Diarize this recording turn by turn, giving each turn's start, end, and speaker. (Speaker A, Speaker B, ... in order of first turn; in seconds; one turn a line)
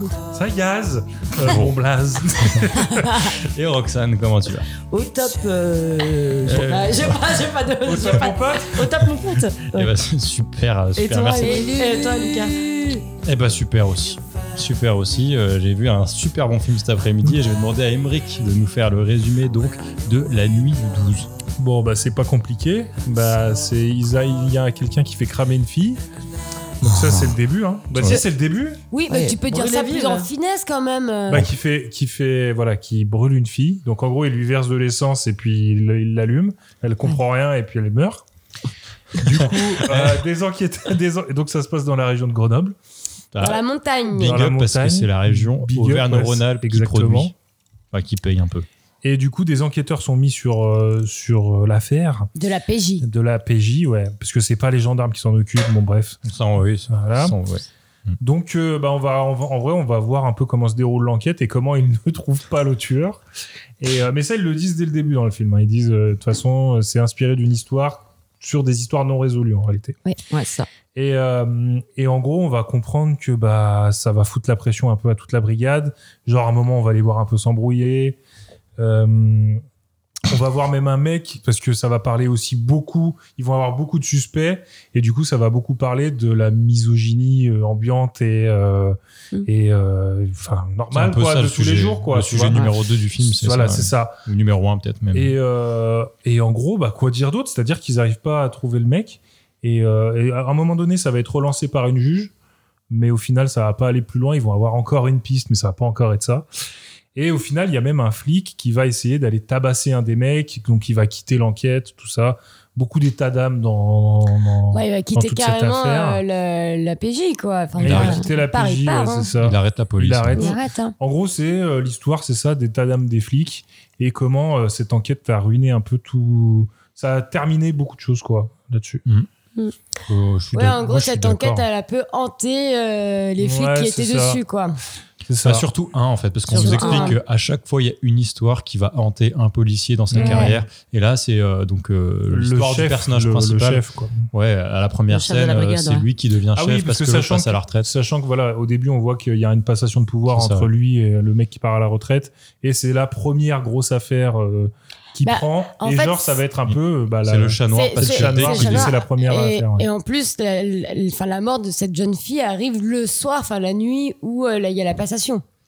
Speaker A: 0.3-3.3
Speaker B: 1.4-1.8
Speaker B: 3.4-4.7
Speaker C: 4.9-9.9
Speaker B: 6.4-7.3
Speaker A: 7.8-8.8
Speaker B: 9.7-11.7
Speaker C: 11.0-13.0
Speaker D: 11.4-12.5
Speaker B: 13.2-21.3
Speaker A: 21.6-26.0
Speaker A: 26.8-28.8
Speaker B: 26.9-27.3
Speaker B: 27.9-28.2
Speaker D: 28.9-31.4
Speaker C: 29.1-30.3
Speaker A: 31.3-38.2
Speaker A: 39.2-42.8
Speaker B: 39.8-40.2
Speaker B: 43.3-43.6
Speaker D: 43.4-44.4
Speaker B: 44.1-47.3
Speaker A: 44.1-47.3
Speaker B: 47.9-48.7
Speaker A: 49.0-52.3
Speaker D: 52.4-53.0
Speaker A: 53.0-56.2
Speaker B: 56.2-58.2
Speaker A: 56.9-57.3
Speaker A: 58.2-63.2
Speaker A: 63.8-70.0
Speaker C: 70.3-70.7
Speaker A: 70.9-78.2
Speaker A: 78.8-79.6
Speaker A: 80.2-94.2
Speaker B: 90.9-95.3
Speaker A: 95.1-102.3
Speaker A: 102.9-106.5
Speaker A: 107.1-116.2
Speaker D: 114.7-119.3
Speaker A: 117.8-129.0
Speaker B: 117.8-118.2
Speaker B: 119.4-120.5
Speaker D: 120.3-120.9
Speaker B: 130.1-131.7
Speaker D: 130.5-134.8
Speaker A: 133.4-134.4
Speaker A: 135.2-135.6
Speaker B: 135.4-147.9
Speaker D: 136.5-137.2
Speaker C: 136.5-137.2
Speaker A: 140.1-140.5
Speaker D: 140.1-140.5
Speaker A: 142.3-144.2
Speaker C: 145.1-146.0
Speaker A: 146.5-159.9
Speaker B: 150.3-150.7
Speaker D: 155.2-156.4
Speaker B: 156.6-158.9
Speaker D: 157.7-165.4